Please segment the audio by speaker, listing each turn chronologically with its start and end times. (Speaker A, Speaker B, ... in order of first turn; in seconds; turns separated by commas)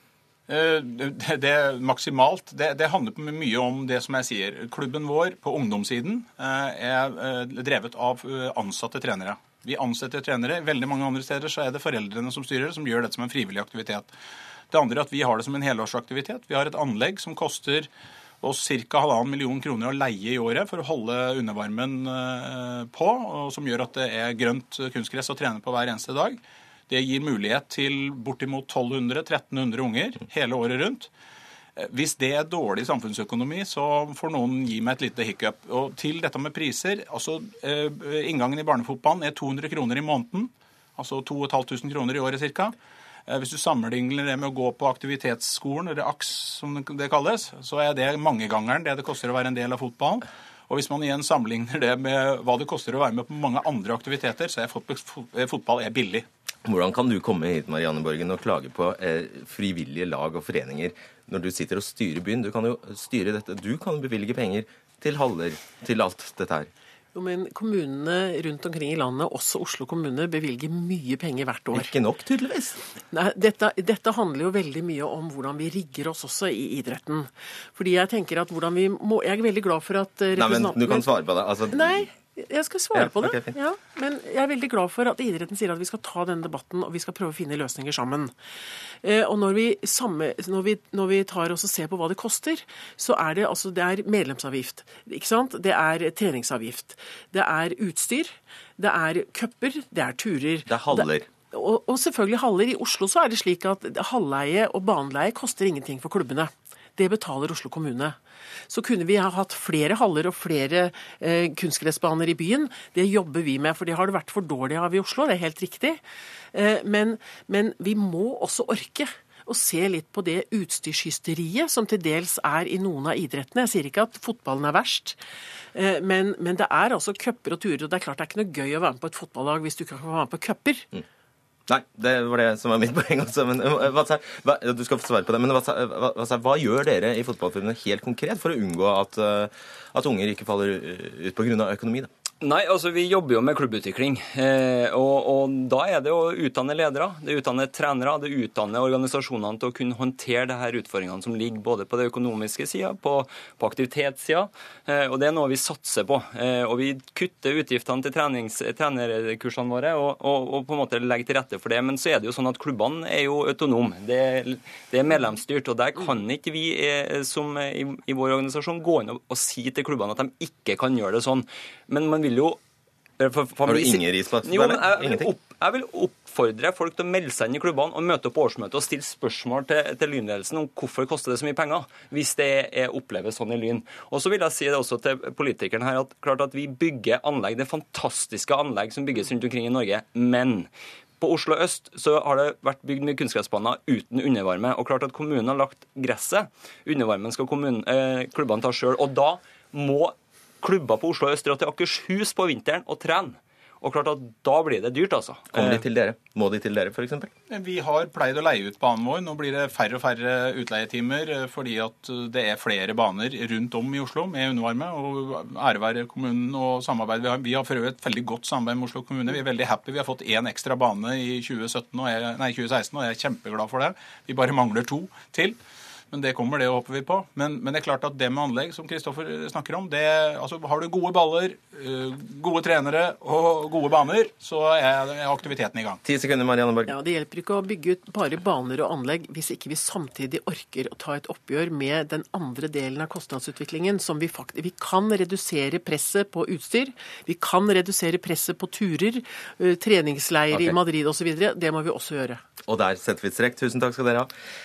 Speaker A: 0.5-14.1, Speaker A: 14.7-17.9, Speaker A: 18.4-31.1, Speaker A: 31.8-42.7, Speaker A: 43.3-56.2, Speaker B: 56.6-66.7, Speaker C: 67.1-71.9, Speaker B: 71.7-72.8, Speaker C: 73.1-81.1, Speaker B: 80.3-82.1, Speaker C: 81.7-88.3, Speaker B: 82.9-83.5, Speaker C: 89.0-108.2, Speaker B: 100.7-101.3, Speaker C: 108.7-116.0, Speaker C: 116.5-125.2, Speaker C: 125.7-130.9, Speaker B: 131.7-142.1, Speaker D: 142.4-172.6, Speaker D: 173.2-205.8, Speaker B: 173.6-175.3, Speaker B: 205.5-207.3, Speaker A: 207.5-225.6, Speaker A: 226.1-236.0, Speaker B: 236.0-236.9, Speaker C: 236.8-252.4, Speaker B: 252.7-254.3